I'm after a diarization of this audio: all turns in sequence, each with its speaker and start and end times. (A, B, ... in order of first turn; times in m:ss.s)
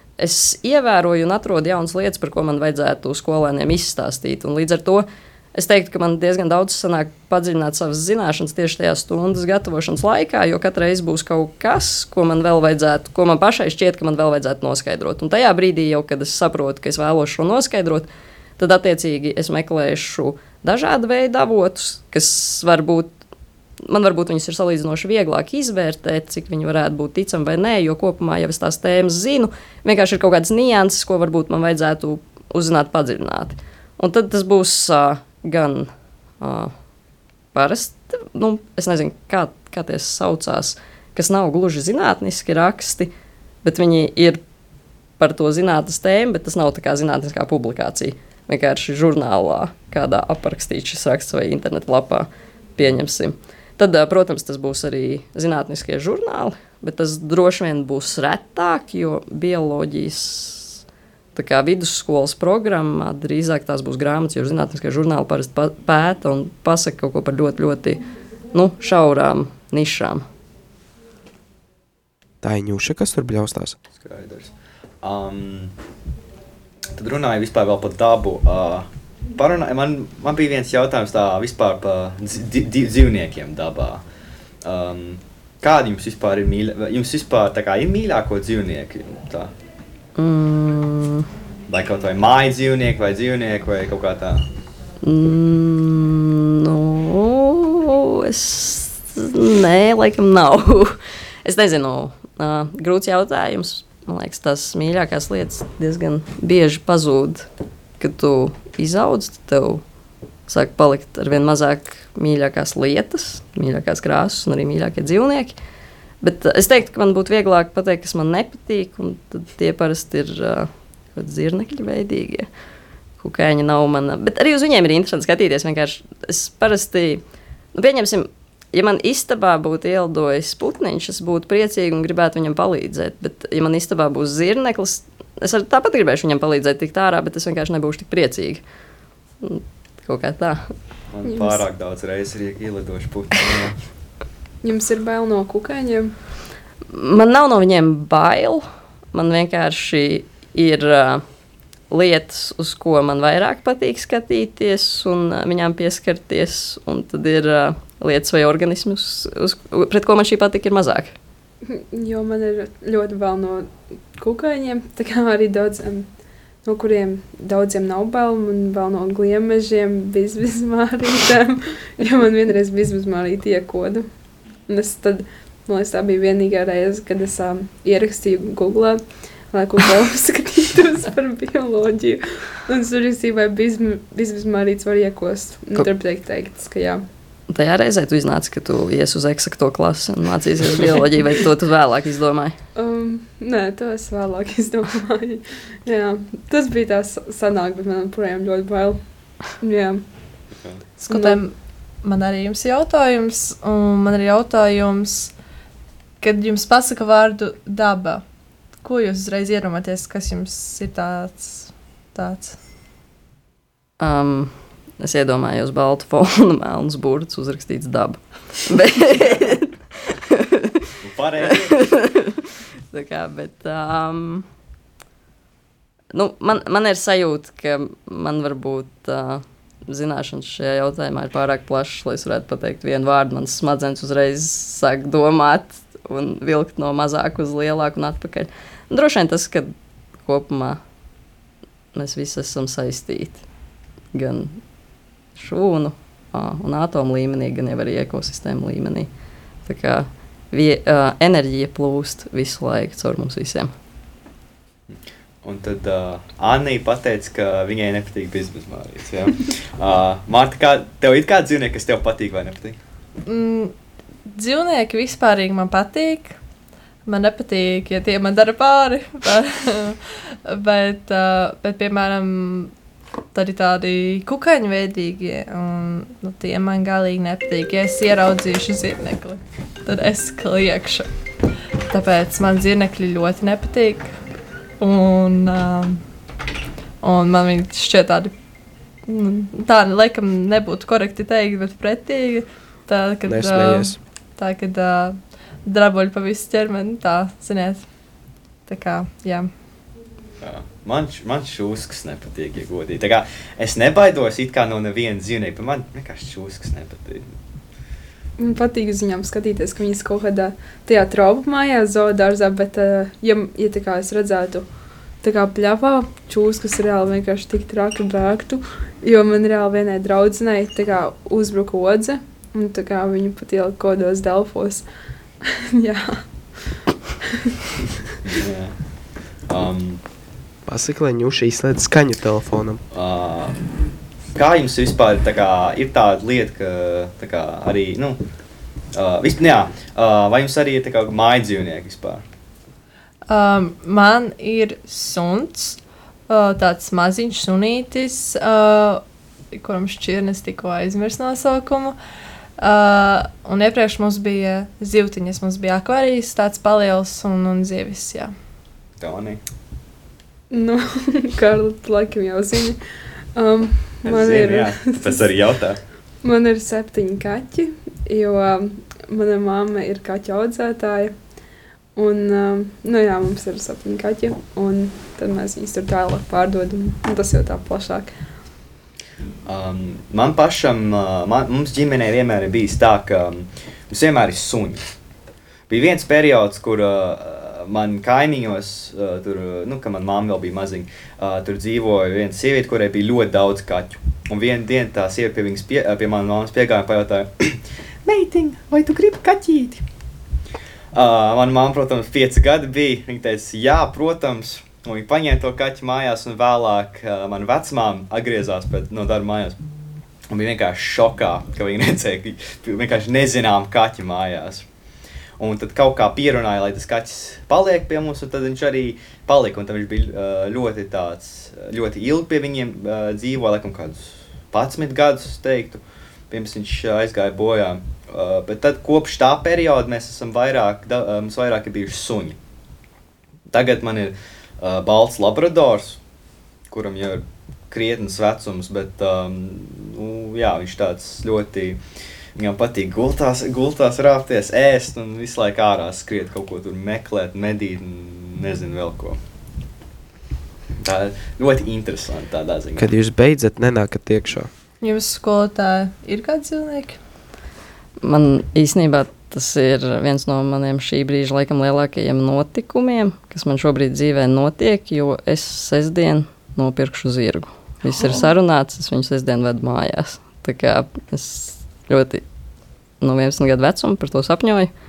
0:00.2-0:18.1 A
0:18.6-0:23.1 A
0:23.8-0:35.9 A
0:36.4-0:36.7 A
0:37.5-0:43.1 A
0:43.6-0:44.4 A
0:45.2-1:00.8 A
1:01.3-1:10.2 A
1:12.4-1:13.8 B
1:13.9-1:15.7 C
1:16.9-1:24.0 C
1:24.6-1:29.5 C
1:30.2-1:31.3 A
1:31.7-1:34.4 C
1:35.0-1:47.5 A
1:48.0-1:49.8 A
1:50.5-1:55.6 A
1:56.2-2:02.5 A
2:03.2-2:07.2 A
2:07.7-2:18.6 A
2:19.4-2:20.7 A
2:21.1-2:23.8 C
2:21.2-2:21.6 D
2:24.6-2:26.1 D
2:26.9-2:31.2 A
2:31.9-2:41.1 A
2:41.6-2:46.1 D
2:46.6-2:54.1 D
2:54.7-3:07.0 D
3:07.5-3:12.5 A
3:12.7-3:20.0 D
3:21.0-3:25.3 E
3:21.1-3:21.4 D
3:26.2-3:28.2 E
3:28.8-3:32.6 E
3:34.0-3:39.7 A
3:40.3-3:40.8 A
3:41.0-3:41.8 C
3:41.8-3:44.4 A
3:46.1-3:59.7 A
4:00.2-4:00.8 A
4:01.9-4:03.4 A
4:04.1-4:04.6 A
4:05.3-4:09.1 A
4:09.6-4:13.7 A
4:14.9-4:22.8 C
4:23.2-4:23.7 E
4:24.3-4:26.4 E
4:27.0-4:32.7 E
4:33.3-4:41.1 E
4:41.9-4:44.1 E
4:44.8-4:46.0 E
4:47.0-4:48.3 E
4:49.0-4:57.9 E
4:53.3-4:54.0 B
4:58.6-4:59.5 E
5:00.4-5:07.3 C
5:08.4-5:14.6 D
5:15.2-5:24.8 D
5:25.4-5:26.7 D
5:28.2-5:28.8 C
5:29.5-5:30.0 C
5:30.7-5:32.8 B
5:32.9-5:33.6 C
5:34.3-5:38.2 C
5:38.9-5:42.2 C
5:43.3-5:49.0 E
5:49.5-5:52.0 E
5:52.6-5:58.3 E
5:59.0-5:59.4 C
6:00.5-6:02.8 D
6:03.4-6:05.2 D
6:04.0-6:05.8 C
6:06.2-6:11.1 D
6:12.0-6:18.1 D
6:19.4-6:24.8 C
6:25.7-6:39.8 C
6:40.9-6:49.6 C
6:50.3-6:54.6 C
6:55.4-7:12.4 C
7:13.5-7:16.0 C
7:16.7-7:21.8 C
7:22.4-7:29.2 C
7:30.8-7:32.9 C
7:32.8-7:34.5 B
7:34.8-7:37.0 E
7:38.0-7:52.2 A
7:53.0-7:54.7 A